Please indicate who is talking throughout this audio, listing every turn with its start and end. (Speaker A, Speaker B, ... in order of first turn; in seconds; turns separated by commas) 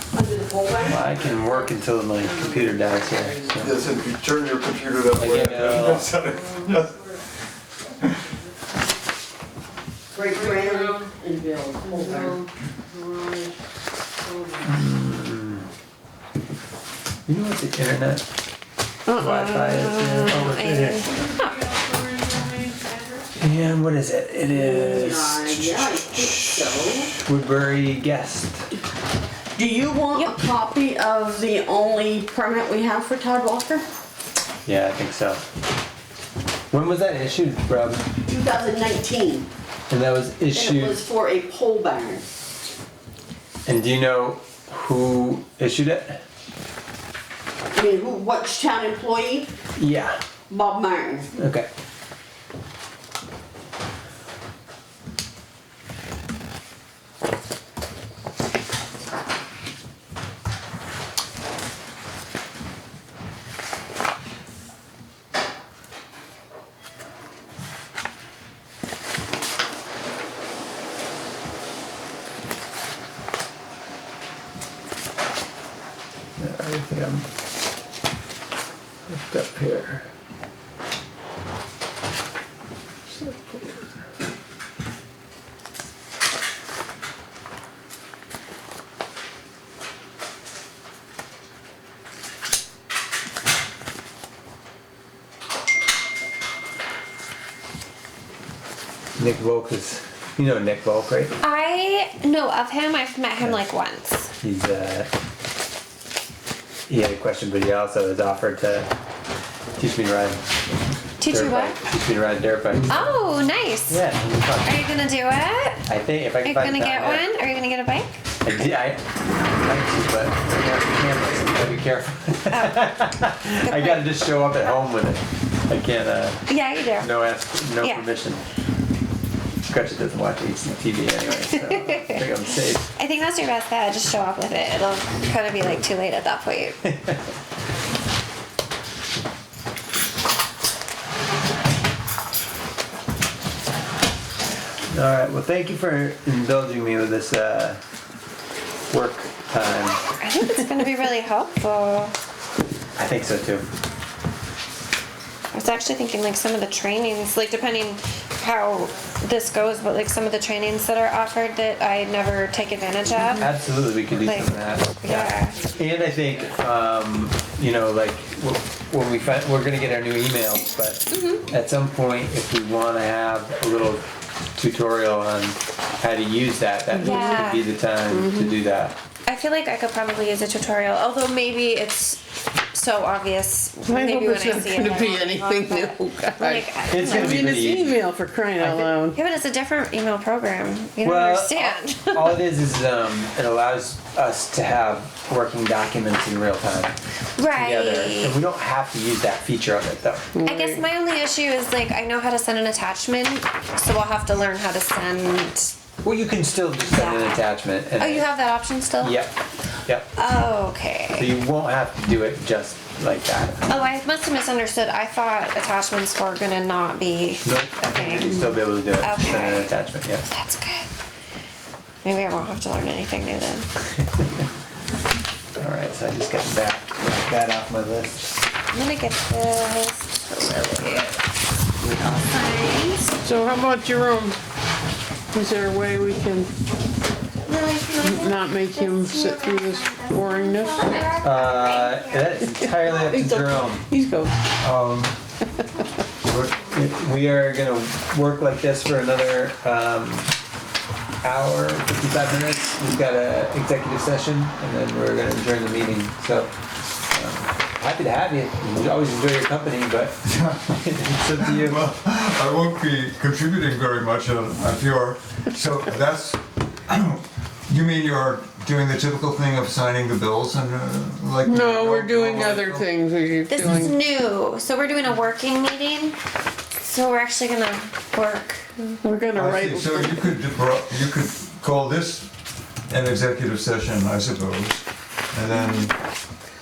Speaker A: 0.1-1.1, Speaker B: 0.8-3.8, Speaker C: 3.6-7.1, Speaker B: 5.1-6.1, Speaker A: 10.1-12.4, Speaker D: 10.3-11.1, Speaker D: 11.8-13.5, Speaker D: 14.2-14.7, Speaker B: 14.6-15.7, Speaker B: 17.2-18.2, Speaker B: 19.1-21.1, Speaker E: 19.2-21.6, Speaker D: 21.1-23.3, Speaker B: 23.4-28.7, Speaker A: 24.5-27.1, Speaker A: 29.6-33.8, Speaker E: 30.1-30.4, Speaker B: 34.6-35.4, Speaker B: 36.7-38.0, Speaker A: 38.2-39.5, Speaker B: 39.9-41.0, Speaker A: 40.5-42.2, Speaker B: 43.6-46.2, Speaker A: 47.7-49.5, Speaker B: 49.8-50.2, Speaker A: 50.5-51.3, Speaker B: 51.3-51.7, Speaker B: 76.4-77.3, Speaker B: 79.1-80.1, Speaker B: 83.0-83.9, Speaker B: 99.2-101.3, Speaker E: 101.4-104.3, Speaker B: 104.4-105.1, Speaker B: 106.9-108.9, Speaker B: 109.8-110.4, Speaker E: 111.2-111.8, Speaker B: 111.3-113.0, Speaker E: 112.9-114.0, Speaker B: 113.9-114.8, Speaker E: 114.6-115.8, Speaker B: 115.8-117.3, Speaker E: 116.4-118.2, Speaker B: 118.4-126.4, Speaker E: 122.5-122.9, Speaker E: 123.6-124.1, Speaker E: 126.5-127.1, Speaker B: 127.0-128.4, Speaker E: 127.8-128.1, Speaker B: 129.7-132.8, Speaker E: 131.5-132.2, Speaker E: 132.9-136.8, Speaker B: 136.9-137.2, Speaker B: 144.9-147.8, Speaker B: 148.9-150.0, Speaker E: 150.2-152.1, Speaker B: 152.9-153.6, Speaker E: 155.5-163.5, Speaker B: 163.3-174.0, Speaker E: 164.2-165.6, Speaker E: 171.1-171.4, Speaker B: 174.5-178.9, Speaker D: 176.9-177.4, Speaker E: 177.0-177.7, Speaker D: 178.1-178.5, Speaker E: 179.2-187.4, Speaker D: 183.8-189.2, Speaker B: 186.9-188.0, Speaker B: 188.6-188.9, Speaker E: 189.1-192.4, Speaker B: 191.0-196.9, Speaker E: 197.4-198.4, Speaker B: 197.5-200.3, Speaker D: 200.3-200.8, Speaker E: 200.4-205.7, Speaker B: 206.0-208.3, Speaker E: 206.9-207.4, Speaker E: 208.0-209.2, Speaker B: 209.0-210.1, Speaker E: 210.1-211.3, Speaker B: 211.2-213.7, Speaker E: 213.7-220.9, Speaker B: 217.4-220.3, Speaker E: 222.0-223.7, Speaker B: 224.0-224.4, Speaker B: 225.6-228.3, Speaker E: 228.7-231.2, Speaker E: 231.8-233.2, Speaker D: 233.2-234.4, Speaker D: 235.3-236.5, Speaker E: 237.4-242.4, Speaker D: 238.0-241.2, Speaker B: 241.2-243.9, Speaker D: 242.6-244.4, Speaker C: 244.6-245.1, Speaker C: 246.2-246.6, Speaker B: 246.7-250.3, Speaker B: 251.2-256.5, Speaker B: 257.1-261.9, Speaker C: 260.2-272.9, Speaker D: 271.4-274.0, Speaker E: 273.5-276.2, Speaker E: 276.8-279.1, Speaker D: 279.0-280.3, Speaker C: 279.3-282.3, Speaker C: 282.9-285.9